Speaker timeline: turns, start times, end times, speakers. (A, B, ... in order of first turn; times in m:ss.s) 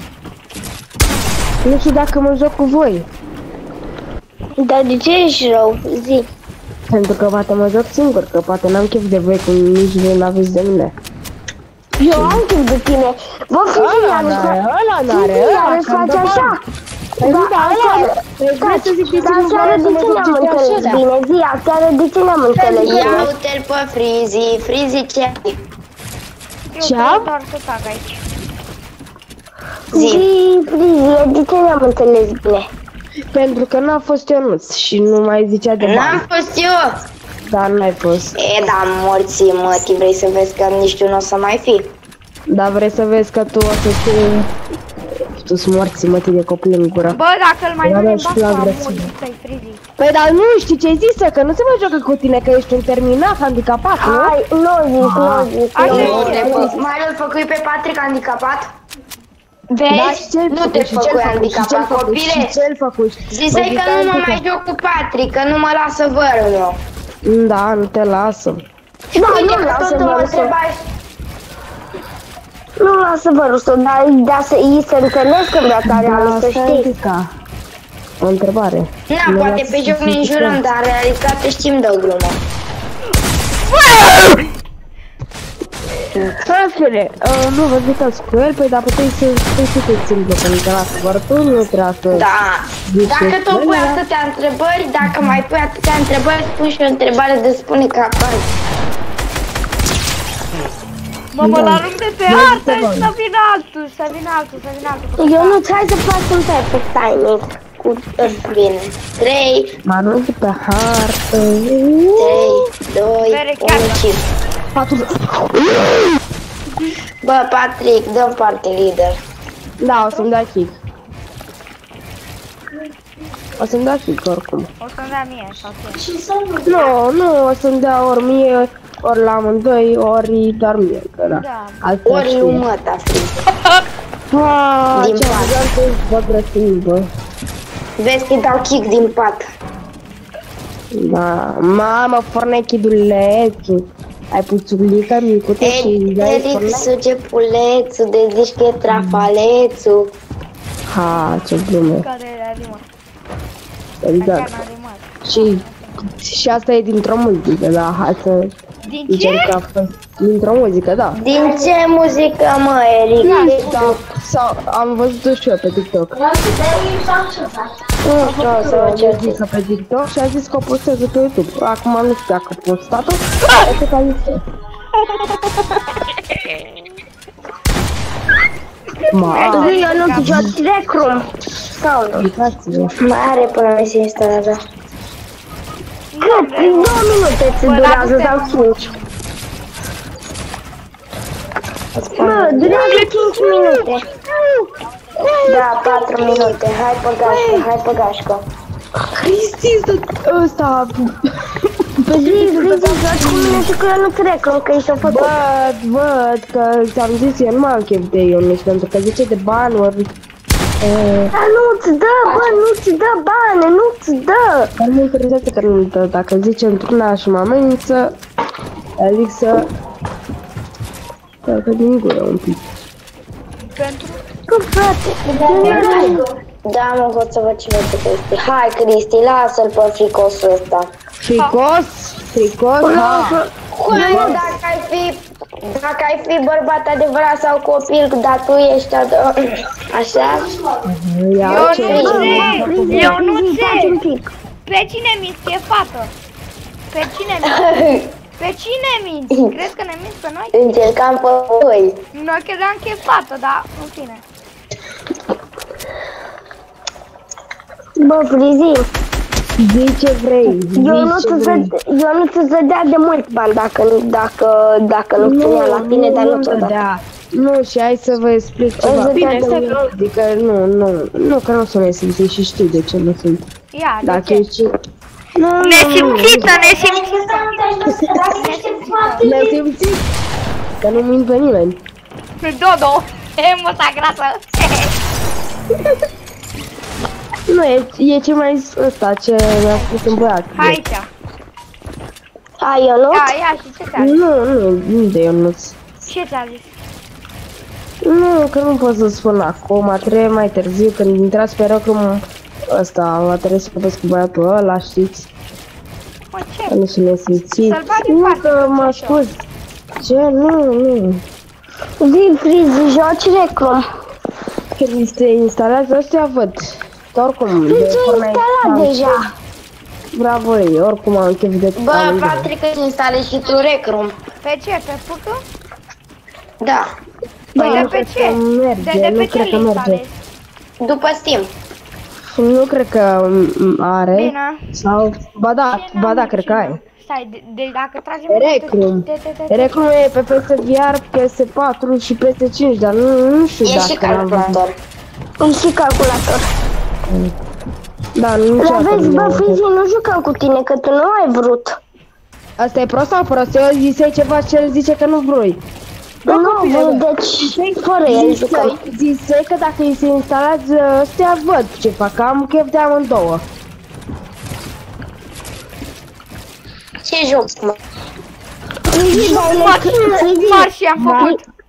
0:01.6-0:03.1 A
0:04.6-0:06.3 B
0:06.9-0:11.0 A
0:12.0-0:14.6 B
0:12.1-0:12.4 A
0:13.7-0:16.6 A
0:15.1-0:16.6 B
0:17.2-0:21.0 A
0:17.2-0:23.3 B
0:22.6-0:23.3 A
0:22.8-0:25.6 C
0:26.7-0:28.2 D
0:26.8-0:27.3 A
0:29.9-0:30.2 C
0:29.9-0:32.7 B
0:33.3-0:36.2 A
0:35.8-0:37.0 C
0:37.5-0:38.4 A
0:38.4-0:41.9 C
0:42.5-0:44.5 A
0:45.3-0:47.2 A
0:47.1-0:49.8 D
0:47.8-0:49.1 A
0:50.0-0:54.4 A
0:54.0-0:56.8 B
0:55.0-0:56.8 A
0:55.7-0:56.4 D
0:55.9-0:58.7 C
0:59.7-1:02.6 C
0:59.9-1:04.4 A
1:03.3-1:06.8 C
1:07.2-1:08.6 A
1:09.1-1:10.8 C
1:09.2-1:10.5 B
1:12.8-1:16.9 B
1:15.8-1:17.3 A
1:18.2-1:20.6 A
1:19.1-1:22.4 C
1:23.7-1:24.5 D
1:26.1-1:26.4 C
1:26.4-1:32.3 A
1:32.1-1:38.5 C
1:32.9-1:34.0 A
1:35.0-1:35.4 A
1:41.3-1:45.6 D
1:41.4-1:43.1 A
1:45.2-1:48.4 B
1:48.2-1:49.8 C
1:49.8-1:52.7 A
1:52.2-1:54.2 C
1:53.2-1:54.0 D
1:54.7-1:56.1 A
1:57.2-1:59.2 C
1:59.8-2:00.7 A
2:00.0-2:00.3 D
2:03.6-2:04.7 A
2:04.8-2:06.0 D
2:06.1-2:06.6 C
2:06.7-2:12.7 A
2:11.3-2:11.8 D
2:12.1-2:13.4 C
2:14.3-2:17.1 A
2:14.9-2:15.6 C
2:18.0-2:19.5 C
2:20.9-2:26.9 A
2:25.6-2:30.1 C
2:28.9-2:29.3 A
2:30.9-2:32.1 A
2:32.0-2:32.9 D
2:34.0-2:34.5 A
2:34.2-2:36.1 D
2:35.2-2:38.5 A
2:38.9-2:39.6 D
2:39.1-2:41.2 A
2:41.2-2:44.0 C
2:41.4-2:41.6 B
2:43.2-2:46.1 A
2:43.2-2:43.6 D
2:46.2-2:47.6 B
2:48.0-2:49.4 C
2:48.2-2:54.4 A
2:55.1-2:55.4 D
2:56.3-2:56.8 D
2:59.0-3:00.5 D
2:59.1-3:00.6 A
2:59.5-3:02.3 B
3:02.1-3:03.0 A
3:03.0-3:04.6 C
3:06.1-3:09.1 D
3:06.2-3:08.9 B
3:12.0-3:13.0 C
3:12.1-3:14.0 B
3:12.2-3:14.7 A
3:15.2-3:16.5 A
3:15.5-3:18.4 C
3:17.2-3:17.7 A
3:19.1-3:23.7 A
3:22.1-3:25.3 B
3:25.0-3:30.1 A
3:30.8-3:31.4 A
3:31.3-3:34.7 B
3:32.4-3:32.6 A
3:34.8-3:38.1 A
3:39.0-3:39.6 A
3:41.4-3:42.6 A
3:43.7-3:44.2 D
3:44.5-3:46.3 B
3:45.3-3:50.9 C
3:45.6-3:46.2 A
3:51.2-3:54.6 A
3:52.8-3:54.5 B
3:53.9-4:00.6 C
4:00.8-4:03.2 A
4:01.4-4:04.0 D
4:01.5-4:02.5 C
4:01.7-4:04.2 B
4:04.7-4:06.1 D
4:06.9-4:07.7 D
4:07.5-4:08.1 C
4:08.4-4:10.5 D
4:10.5-4:12.0 C
4:12.1-4:14.2 D
4:18.0-4:18.9 B
4:19.6-4:21.7 A
4:20.7-4:26.8 B
4:25.2-4:33.4 A
4:28.8-4:29.8 B
4:33.7-4:34.5 D
4:34.0-4:34.7 A
4:35.6-4:36.6 A
4:35.6-4:37.4 D
4:35.7-4:39.5 B
4:38.3-4:39.3 D
4:39.2-4:40.0 A
4:40.8-4:41.8 A
4:42.4-4:45.0 D
4:47.5-4:50.8 A
4:49.7-4:51.1 D
4:52.6-4:53.3 B
4:53.1-4:54.3 D
4:54.0-4:55.8 A
4:56.1-4:56.8 D
4:58.0-5:05.3 A
5:06.3-5:06.8 D
5:06.7-5:09.4 A
5:07.6-5:09.2 D
5:10.0-5:11.2 A
5:12.0-5:13.8 B
5:14.8-5:19.2 A
5:17.7-5:19.3 B
5:20.1-5:22.5 A
5:21.8-5:24.2 C
5:24.4-5:25.4 D
5:26.6-5:26.9 C
5:27.6-5:30.0 A
5:27.6-5:27.9 B
5:27.6-5:30.2 D
5:30.8-5:31.5 C
5:32.3-5:36.8 A
5:34.1-5:34.8 D
5:35.7-5:39.8 D
5:38.3-5:44.6 A
5:43.6-5:44.8 C
5:45.4-5:46.5 B
5:47.1-5:47.3 A
5:48.2-5:49.6 A
5:48.6-5:51.8 B
5:52.6-5:55.6 A
5:56.2-5:58.8 B
5:56.2-6:03.4 A
6:07.0-6:07.8 C
6:08.9-6:11.4 B
6:09.1-6:11.4 D
6:11.0-6:11.4 A